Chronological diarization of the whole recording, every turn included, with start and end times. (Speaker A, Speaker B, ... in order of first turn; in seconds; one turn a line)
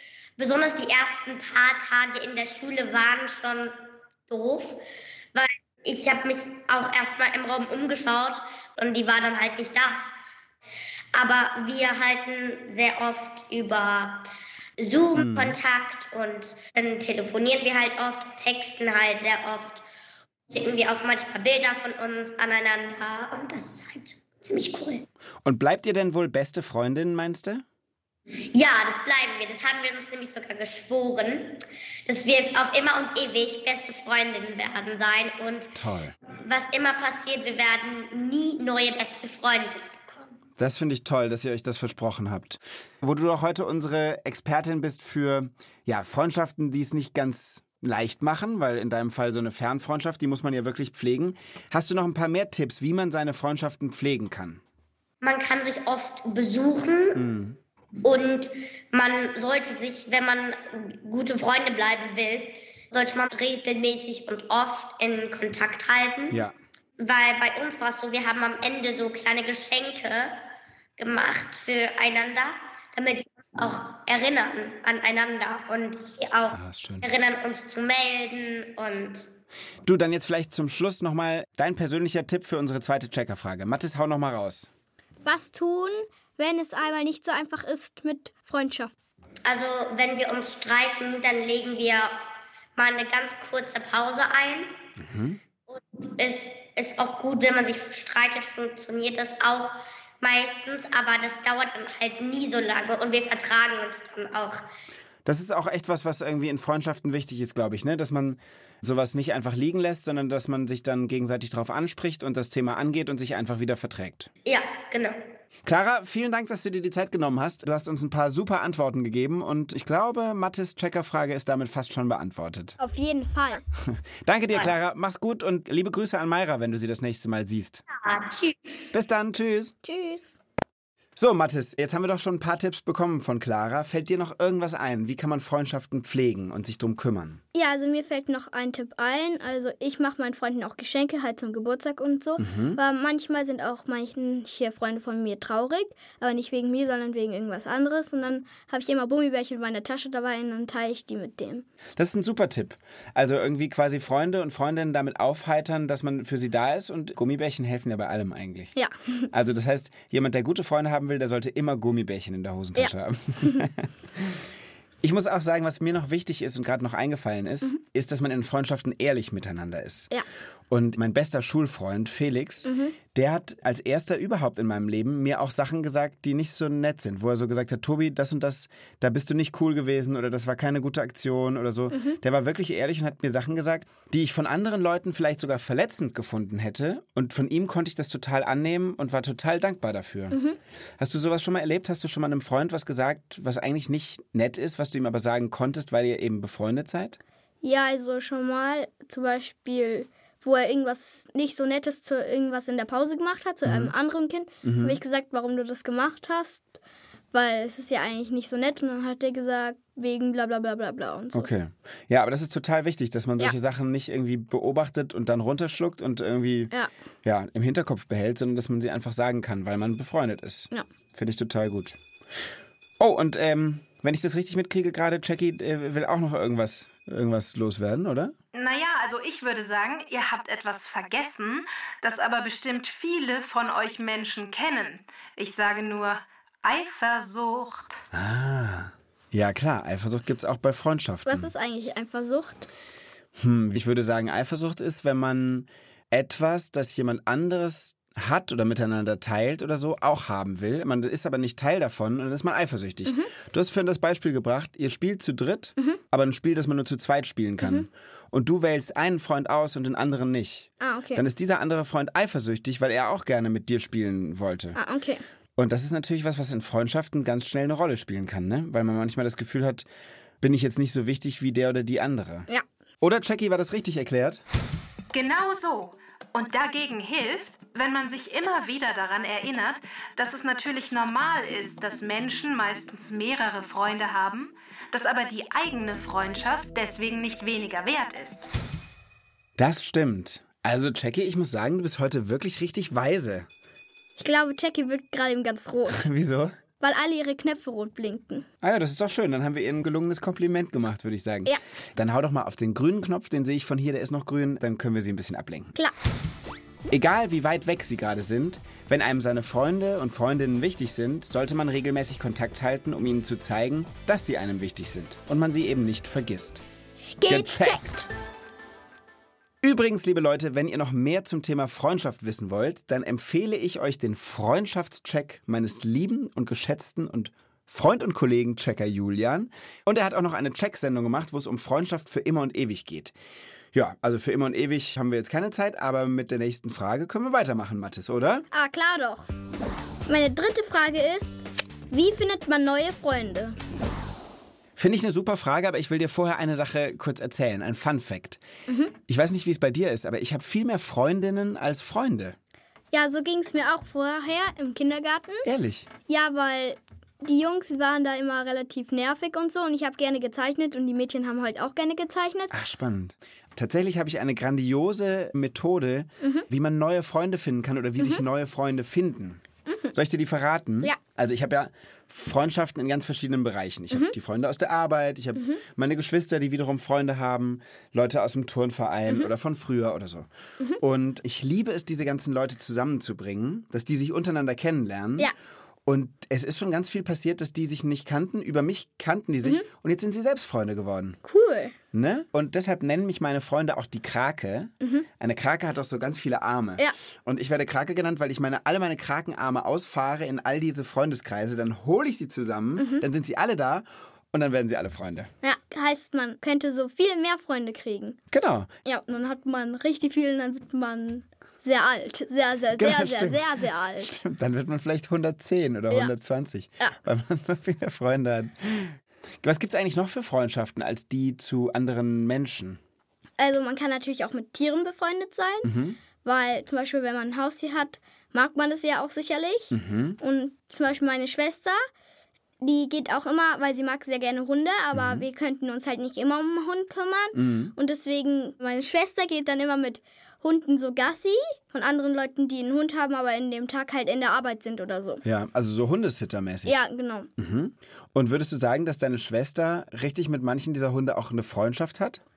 Speaker A: 0.4-3.8
Speaker A: 4.3-4.8
Speaker A: 5.3-10.1
Speaker A: 11.1-14.3
Speaker A: 14.8-19.8
Speaker B: 15.2-15.6
Speaker A: 20.5-25.1
Speaker B: 25.4-27.6
Speaker A: 28.3-35.7
Speaker B: 35.8-36.1
Speaker A: 36.4-40.4
Speaker B: 40.6-54.6
Speaker A: 55.2-57.2
Speaker B: 57.1-57.6
Speaker A: 58.0-66.4
Speaker B: 66.3-66.5
Speaker A: 67.0-70.4
Speaker A: 71.0-79.3
Speaker B: 76.5-77.1
Speaker B: 79.8-84.7
Speaker C: 85.2-89.0
Speaker A: 89.5-92.2
Speaker A: 92.8-94.7
Speaker B: 95.0-95.4
Speaker A: 95.7-104.6
Speaker B: 105.2-114.3
Speaker A: 114.5-115.2
Speaker B: 115.7-122.8
Speaker C: 122.8-123.6
Speaker B: 123.8-127.8
Speaker A: 127.9-128.9
Speaker B: 128.9-129.7
Speaker C: 129.8-130.4
Speaker B: 131.2-137.4
Speaker C: 137.6-151.7
Speaker B: 142.4-142.8
Speaker B: 152.0-158.8
Speaker C: 158.8-159.3
Speaker B: 159.3-170.1
Speaker C: 162.8-163.6
Speaker B: 170.7-190.4
Speaker C: 172.7-173.0
Speaker C: 181.9-182.2
Speaker C: 190.3-190.6
Speaker B: 191.0-197.2
Speaker C: 197.6-206.7
Speaker B: 203.7-203.9
Speaker B: 204.6-205.0
Speaker C: 207.3-211.5
Speaker B: 211.3-216.7
Speaker B: 217.2-222.0
Speaker B: 223.0-228.3
Speaker D: 228.5-238.0
Speaker B: 238.1-241.5
Speaker C: 241.3-242.7
Speaker B: 243.4-264.8
Speaker C: 257.6-257.9
Speaker C: 260.8-261.2
Speaker C: 264.8-265.2
Speaker B: 265.6-269.9
Speaker B: 270.4-272.5
Speaker B: 273.0-274.4
Speaker D: 275.1-288.4
Speaker B: 289.6-293.5
Speaker C: 294.2-296.1
Speaker B: 295.9-296.6
Speaker C: 296.8-298.5
Speaker B: 298.6-305.7
Speaker B: 306.9-316.6
Speaker C: 317.2-318.0
Speaker B: 317.3-318.1
Speaker B: 319.6-333.1
Speaker B: 333.7-338.5
Speaker C: 338.5-339.3
Speaker C: 340.1-343.6
Speaker B: 344.8-348.4
Speaker C: 348.7-348.9
Speaker B: 349.0-352.4
Speaker C: 352.9-355.5
Speaker B: 355.4-355.9
Speaker C: 356.1-362.5
Speaker B: 362.5-380.3
Speaker C: 369.7-369.9
Speaker B: 380.8-385.3
Speaker B: 385.9-391.2
Speaker C: 391.2-391.8
Speaker B: 391.9-405.3
Speaker C: 402.8-403.1
Speaker C: 405.4-408.2
Speaker B: 408.3-408.7
Speaker C: 408.9-414.1
Speaker B: 412.8-422.8
Speaker C: 423.4-431.8
Speaker B: 425.6-426.0
Speaker B: 429.7-430.2
Speaker C: 432.6-445.2
Speaker B: 434.9-435.2
Speaker B: 437.3-437.7
Speaker B: 445.2-446.8
Speaker C: 446.7-447.3
Speaker B: 447.4-452.2